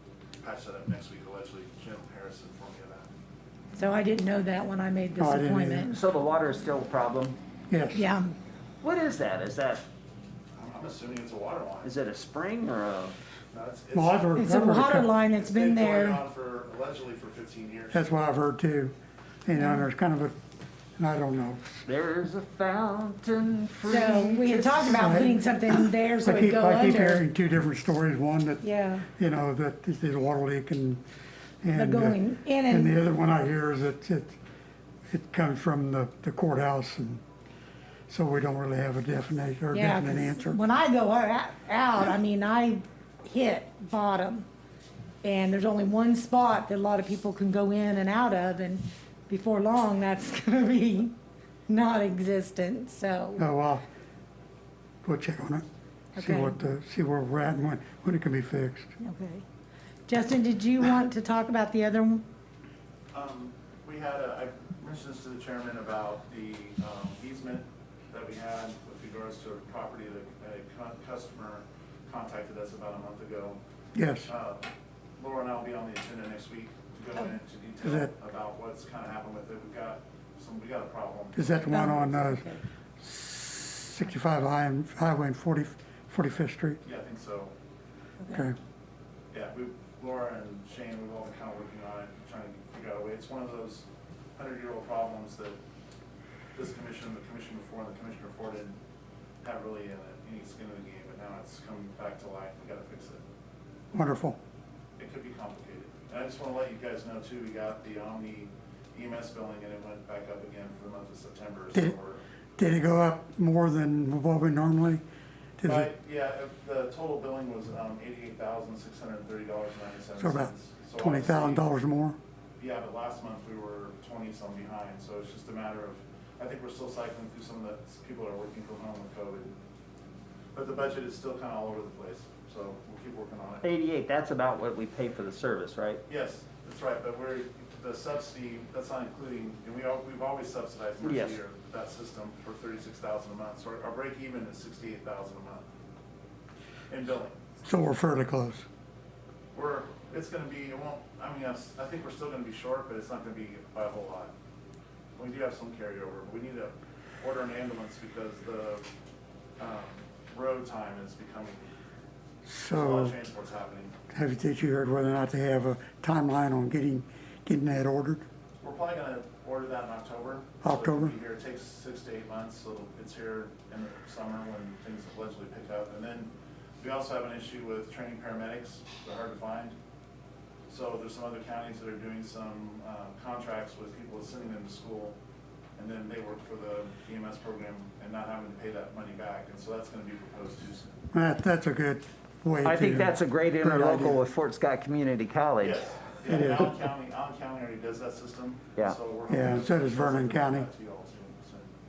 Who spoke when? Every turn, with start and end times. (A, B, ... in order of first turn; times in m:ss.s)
0:00.4-0:03.1 A
0:03.7-0:06.0 B
0:05.2-0:05.9 C
0:05.9-0:07.4 D
0:07.7-0:08.0 C
0:07.9-0:08.4 B
0:08.8-0:09.8 D
0:10.6-0:12.0 A
0:11.8-0:13.2 D
0:13.5-0:14.5 A
0:13.9-0:15.1 C
0:14.4-0:16.2 B
0:15.2-0:18.1 A
0:17.9-0:18.9 C
0:19.4-0:20.3 C
0:19.6-0:19.8 B
0:21.0-0:21.8 C
0:21.8-0:25.3 D
0:23.9-0:27.2 B
0:25.0-0:31.0 C
0:28.6-0:29.0 B
0:31.6-0:34.4 C
0:31.7-0:32.9 B
0:35.1-0:37.2 C
0:38.1-0:40.6 C
0:39.7-0:44.5 B
0:45.2-0:51.2 B
0:51.7-0:53.4 B
0:53.4-0:53.8 C
0:55.0-0:58.9 C
0:56.2-0:56.6 B
0:59.0-0:59.4 B
1:00.1-1:02.2 B
1:03.1-1:13.6 A
1:14.0-1:14.3 C
1:14.2-1:14.6 A
1:15.2-1:22.2 A
1:17.8-1:18.1 C
1:21.3-1:22.5 C
1:21.7-1:22.6 B
1:23.0-1:26.8 C
1:26.8-1:27.5 A
1:29.3-1:33.9 A
1:34.4-1:35.6 A
1:36.6-1:38.8 A
1:39.4-1:43.2 A
1:43.9-1:44.4 C
1:45.0-1:52.2 A
1:52.6-1:55.0 C
1:55.6-1:55.9 C
1:55.6-2:01.6 A
2:00.2-2:02.2 C
2:02.6-2:09.5 A
2:10.5-2:13.7 A
2:13.6-2:16.0 D
2:16.1-2:25.6 A
2:21.0-2:21.4 D
2:26.9-2:27.4 A
2:27.6-2:28.6 C
2:29.5-2:34.3 A
2:35.2-2:38.9 A
2:39.6-2:41.7 A
2:42.4-2:43.1 C
2:42.7-2:43.9 A
2:44.1-2:48.2 C
2:48.6-2:59.7 A
2:50.6-2:51.1 C
3:00.7-3:05.2 A
3:05.8-3:11.0 A
3:11.1-3:14.2 C
3:12.6-3:15.8 D
3:15.6-3:21.7 A
3:16.3-3:16.7 C
3:19.3-3:20.7 C